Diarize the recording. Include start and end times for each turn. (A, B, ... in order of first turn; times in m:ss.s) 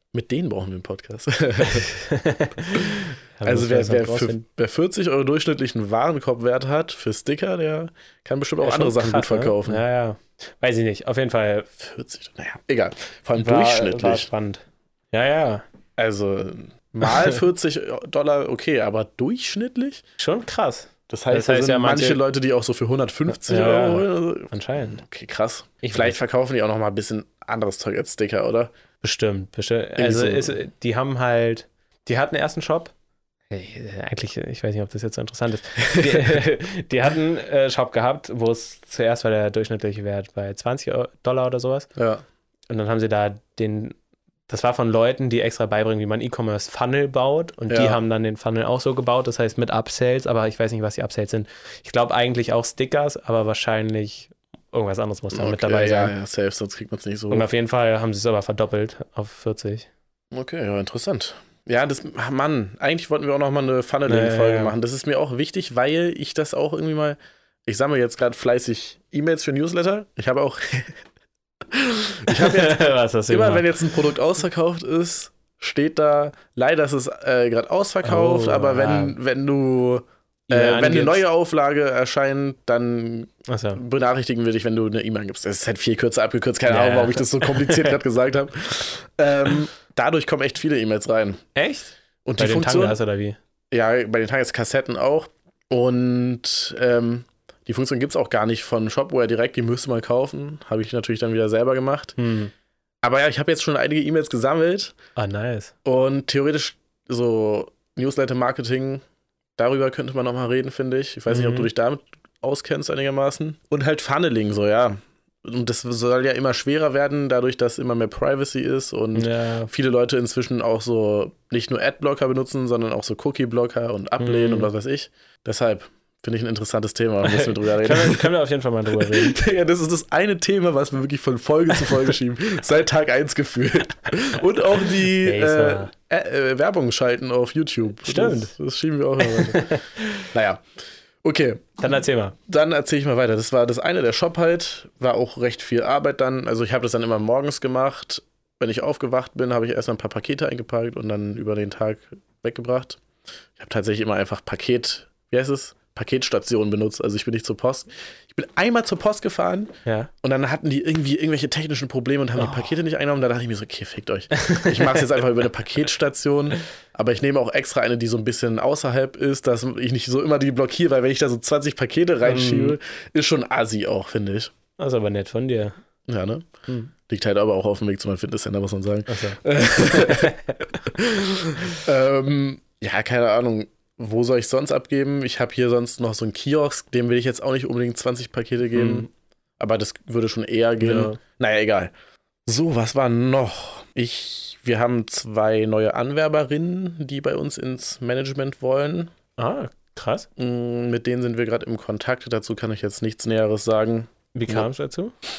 0:00.1-0:01.9 A
0:01.6-0:04.4 B
0:02.7-0:09.8 A
0:08.6-0:11.7 B
0:11.8-0:14.3 A
0:13.4-0:15.6 B
0:16.0-0:20.0 A
0:17.0-0:17.4 B
0:20.2-0:22.2 B
0:21.1-0:28.7 A
0:23.3-0:25.0 B
0:25.8-0:26.2 B
0:29.0-0:32.9 B
0:30.0-0:30.6 A
0:33.5-0:41.9 B
0:35.8-0:36.3 A
0:42.0-0:42.2 A
0:42.7-0:44.0 B
0:44.5-0:56.1 B
0:47.7-0:48.0 A
0:55.3-0:57.5 A
0:57.3-0:59.9 B
1:00.3-1:11.0 A
1:04.1-1:04.8 B
1:11.7-1:31.4 A
1:12.3-1:14.0 B
1:18.0-1:19.2 B
1:20.5-1:21.2 B
1:23.5-1:23.8 B
1:26.7-1:28.0 B
1:31.6-1:33.4 B
1:32.2-1:33.0 A
1:33.7-1:42.2 A
1:42.2-1:42.5 B
1:43.0-1:45.0 A
1:45.2-1:45.7 B
1:45.8-1:49.0 A
1:49.6-2:08.3 A
1:51.3-1:51.7 B
1:59.2-1:59.7 B
2:04.2-2:04.7 B
2:07.2-2:09.4 B
2:09.0-2:20.6 A
2:11.8-2:12.1 B
2:15.2-2:15.9 B
2:18.0-2:18.5 B
2:19.2-2:20.3 B
2:21.2-2:21.9 A
2:21.8-2:22.4 B
2:22.5-2:33.0 A
2:33.6-2:54.5 A
2:39.8-2:40.1 B
2:42.4-2:42.8 B
2:44.4-2:45.2 B
2:52.2-2:52.8 B
2:54.8-2:55.8 B
2:56.1-2:56.5 A
2:57.1-3:11.9 A
2:59.1-3:00.8 B
3:08.7-3:09.1 B
3:10.8-3:11.2 B
3:12.5-3:19.1 A
3:19.4-3:20.3 B
3:20.4-3:24.7 A
3:24.3-3:25.1 B